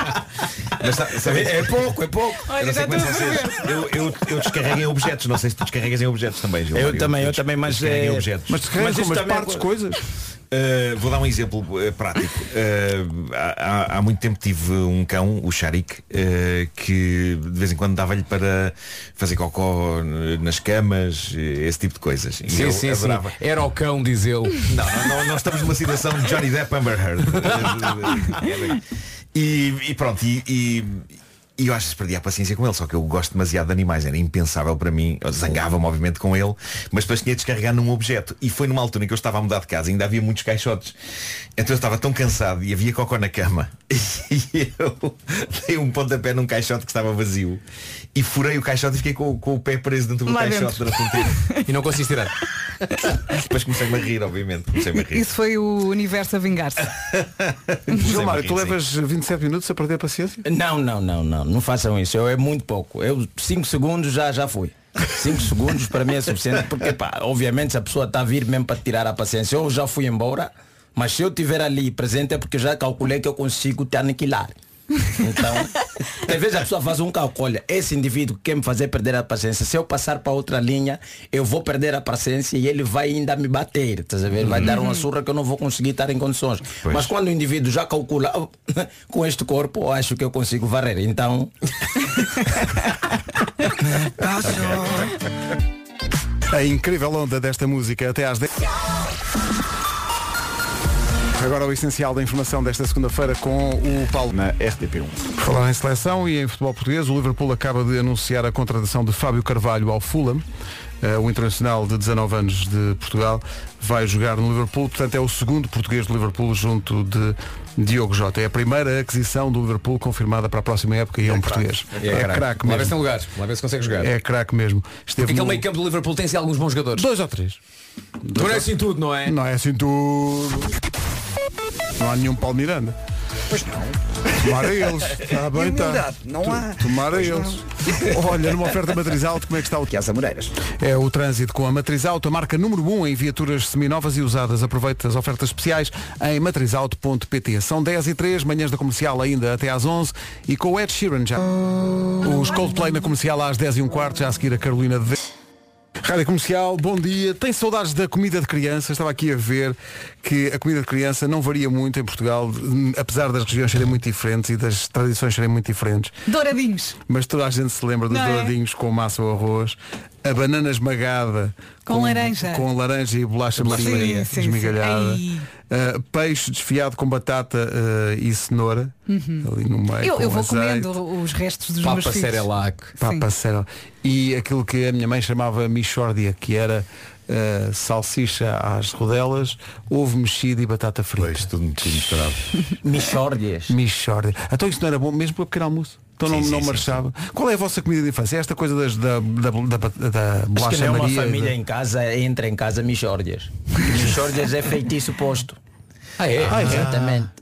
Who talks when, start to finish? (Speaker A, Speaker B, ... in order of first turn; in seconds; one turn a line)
Speaker A: 0.8-8.6
Speaker B: 1.1-2.5
Speaker C: 2.5-3.8
Speaker B: 6.7-9.7
Speaker D: 8.5-10.0
Speaker A: 10.5-23.4
Speaker E: 22.5-24.7
Speaker A: 24.7-28.8
Speaker A: 29.3-41.0
Speaker A: 41.6-47.6
Speaker A: 48.1-51.5
Speaker C: 50.3-51.6
Speaker E: 51.6-52.3
Speaker A: 53.2-55.3
Speaker C: 54.9-56.9
Speaker A: 57.4-58.8
Speaker D: 57.9-60.5
Speaker B: 60.5-74.5
Speaker B: 75.2-91.5
Speaker A: 84.4-84.8
Speaker A: 86.8-87.1
Speaker F: 94.1-95.2
Speaker A: 94.5-94.7
Speaker D: 96.5-98.5
Speaker D: 101.4-104.3
Speaker F: 104.4-105.1
Speaker A: 104.4-105.0
Speaker D: 105.4-110.4
Speaker D: 111.0-123.0
Speaker E: 122.0-124.1
Speaker D: 124.0-125.7
Speaker E: 125.2-127.1
Speaker D: 127.0-127.6
Speaker D: 128.2-128.7
Speaker E: 128.3-129.3
Speaker D: 129.2-130.7
Speaker D: 132.0-133.0
Speaker F: 133.5-138.2
Speaker D: 134.4-139.9
Speaker F: 139.9-140.6
Speaker D: 140.7-151.5
Speaker D: 152.2-155.2
Speaker D: 156.0-166.2
Speaker C: 166.3-167.0
Speaker D: 167.1-180.9
Speaker C: 168.1-168.5
Speaker C: 171.9-172.7
Speaker E: 173.6-174.1
Speaker C: 173.7-175.5
Speaker C: 179.1-179.5
Speaker C: 180.0-182.5
Speaker E: 181.8-182.9
Speaker D: 183.0-192.1
Speaker C: 183.0-183.3
Speaker A: 191.2-192.5
Speaker B: 192.8-193.7
Speaker D: 193.7-201.6
Speaker A: 196.2-197.0
Speaker B: 200.6-205.6
Speaker E: 206.2-207.0
Speaker D: 206.5-206.9
Speaker B: 206.5-207.3